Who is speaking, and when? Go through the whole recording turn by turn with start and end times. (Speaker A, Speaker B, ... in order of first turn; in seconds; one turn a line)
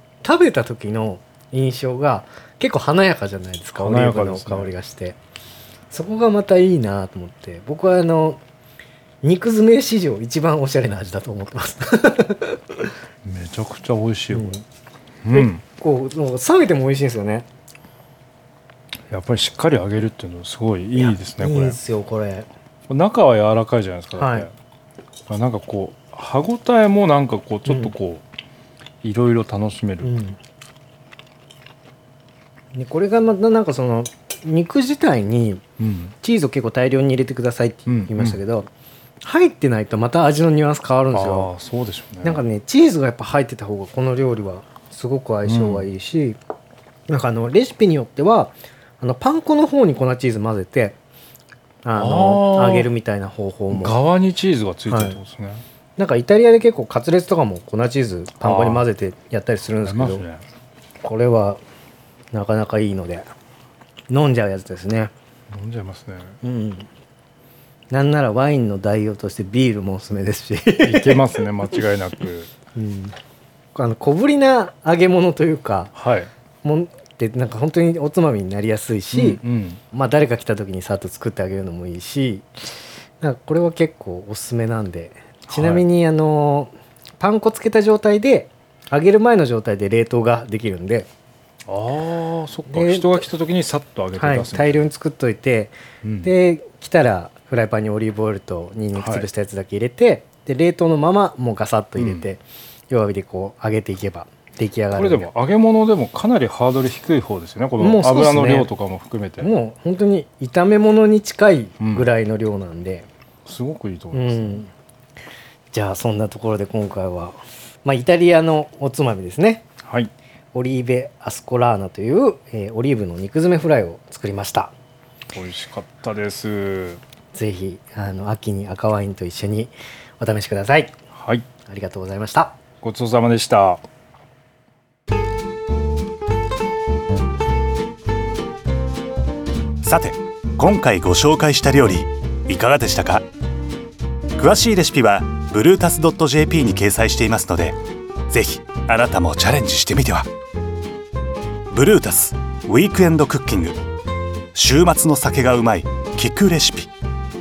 Speaker A: 0.2-5.2
Speaker B: 3.8-4.7
Speaker A: 5.9-8.4
Speaker A: 9.2-12.9
Speaker B: 13.2-14.6
Speaker A: 14.3-14.6
Speaker B: 15.2-15.6
Speaker A: 15.3-17.5
Speaker B: 19.1-21.8
Speaker A: 21.0-22.5
Speaker B: 22.9-24.5
Speaker A: 24.2-24.5
Speaker B: 25.3-28.2
Speaker A: 27.7-27.9
Speaker B: 29.0-30.1
Speaker A: 30.0-30.4
Speaker A: 32.7-35.6
Speaker B: 35.8-36.1
Speaker A: 36.2-38.7
Speaker B: 37.9-38.4
Speaker A: 39.2-41.5
Speaker B: 41.1-42.4
Speaker A: 42.2-46.4
Speaker B: 45.5-45.9
Speaker A: 47.1-51.0
Speaker A: 51.8-54.0
Speaker B: 52.0-52.9
Speaker B: 53.7-55.6
Speaker A: 54.9-55.2
Speaker A: 56.0-60.2
Speaker B: 58.4-58.9
Speaker B: 59.8-60.4
Speaker A: 61.0-61.6
Speaker A: 62.3-63.3
Speaker A: 64.1-65.1
Speaker B: 65.5-66.4
Speaker A: 66.4-66.9
Speaker A: 67.9-71.2
Speaker B: 70.8-72.5
Speaker A: 72.7-73.2
Speaker A: 73.8-75.9
Speaker B: 75.9-76.3
Speaker A: 76.6-79.4
Speaker B: 79.1-79.8
Speaker A: 79.9-82.7
Speaker A: 83.2-91.1
Speaker B: 85.5-85.9
Speaker B: 91.7-94.9
Speaker A: 92.7-93.3
Speaker A: 94.2-105.3
Speaker B: 96.0-96.3
Speaker B: 99.0-99.3
Speaker B: 102.0-102.2
Speaker B: 104.9-109.5
Speaker A: 107.8-108.7
Speaker A: 109.4-113.1
Speaker B: 111.8-112.1
Speaker B: 113.5-114.6
Speaker A: 114.1-114.7
Speaker A: 115.7-119.6
Speaker B: 119.8-120.1
Speaker A: 120.5-124.7
Speaker B: 125.3-127.0
Speaker A: 127.3-130.9
Speaker B: 131.1-131.4
Speaker A: 131.7-132.6
Speaker B: 132.8-133.8
Speaker C: 139.8-143.2
Speaker C: 144.4-147.8
Speaker C: 148.3-150.3
Speaker C: 151.7-153.8
Speaker C: 154.6-156.9